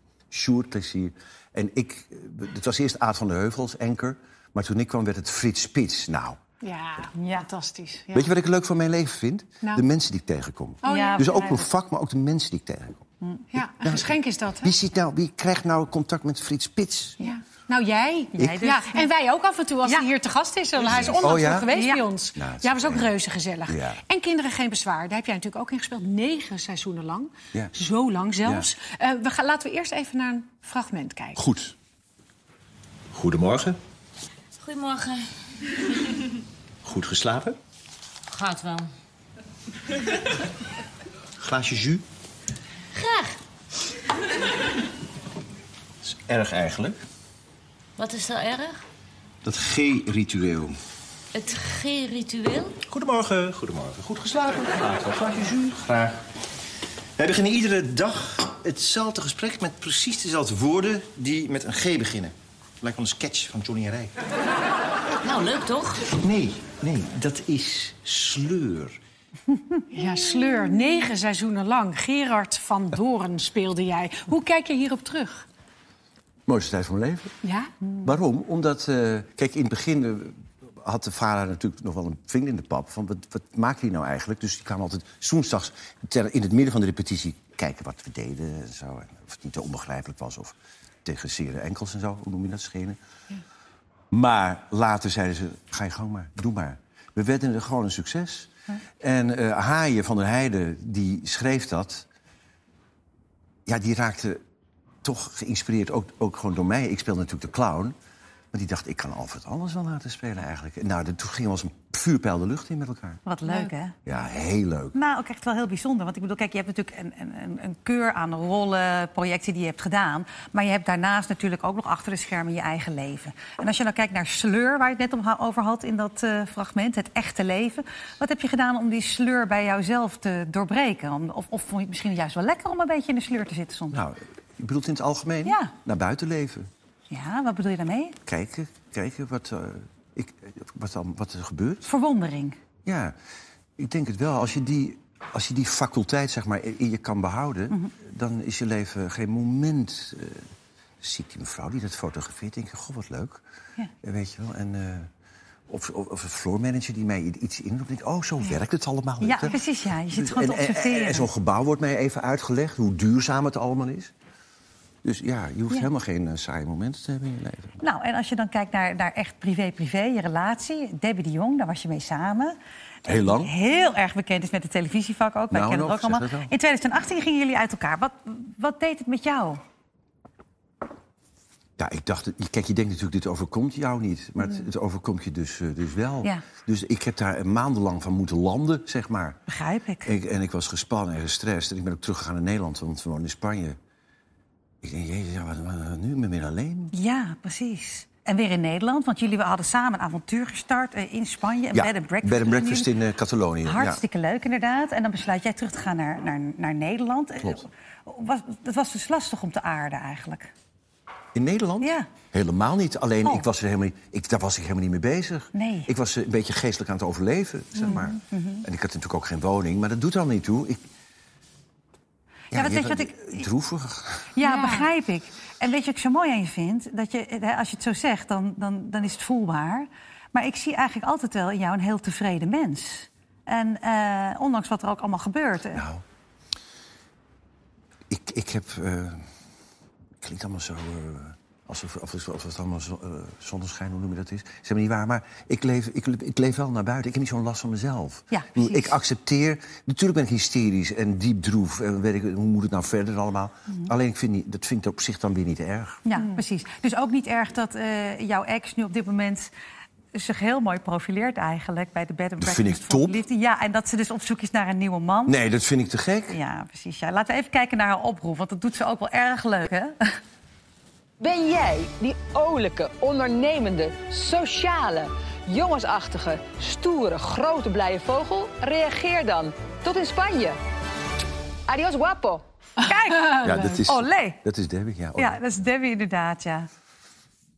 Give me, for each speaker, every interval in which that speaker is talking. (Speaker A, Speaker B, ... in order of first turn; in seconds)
Speaker A: 0.3-6.4, 8.1-13.1, 13.6-17.2, 20.8-21.7, 22.4-23.1, 23.7-24.0, 28.4-28.7, 31.4-31.8, 33.1-33.8, 36.8-37.6, 41.4-42.0, 46.0-47.0, 49.4-50.8, 52.8-56.2, 57.2-64.1, 66.0-69.0, 76.5-77.3, 78.0-93.0, 94.1-102.1, 103.7-104.4, 105.0-107.9, 108.5-113.2, 114.1-115.0, 133.9-136.7, 138.3-141.9, 142.8-143.2, 143.8-150.5, 151.0-153.4, 154.0-155.1, 155.7-159.6, 160.1-164.1, 165.0-167.8, 173.1-173.5, 175.5-176.5, 181.8-189.4, 190.0-193.8, 194.8-196.9, 201.7-204.0, 211.3-220.8, 222.5-224.3, 235.7-236.0, 238.1-239.2, 240.2-256.0, 262.4-263.2, 265.3-266.4, 283.4-285.4
Speaker B: 6.6-8.3, 10.8-11.3, 13.5-14.7, 17.2-31.4, 69.9-75.5, 77.4-77.7, 224.4-224.9
Speaker C: 7.2-7.5, 10.9-11.7, 18.4-19.1, 21.7-22.1, 113.2-114.0, 114.9-134.0, 135.4-135.7, 137.1-138.2, 141.9-142.6, 159.2-161.3, 167.8-179.6, 189.5-190.2, 196.9-202.9, 203.7-210.5, 211.8-212.1, 215.5-215.9, 217.9-218.7, 222.5-223.5, 224.3-235.8, 248.3-249.0, 256.1-259.5, 260.1-265.4, 266.3-270.2, 282.8-284.4, 285.2-286.7
Speaker D: 34.5-35.3, 38.3-38.9, 43.0-43.4, 48.0-48.8, 51.4-52.7, 65.3-65.9
Speaker E: 271.2-280.6, 281.7-283.4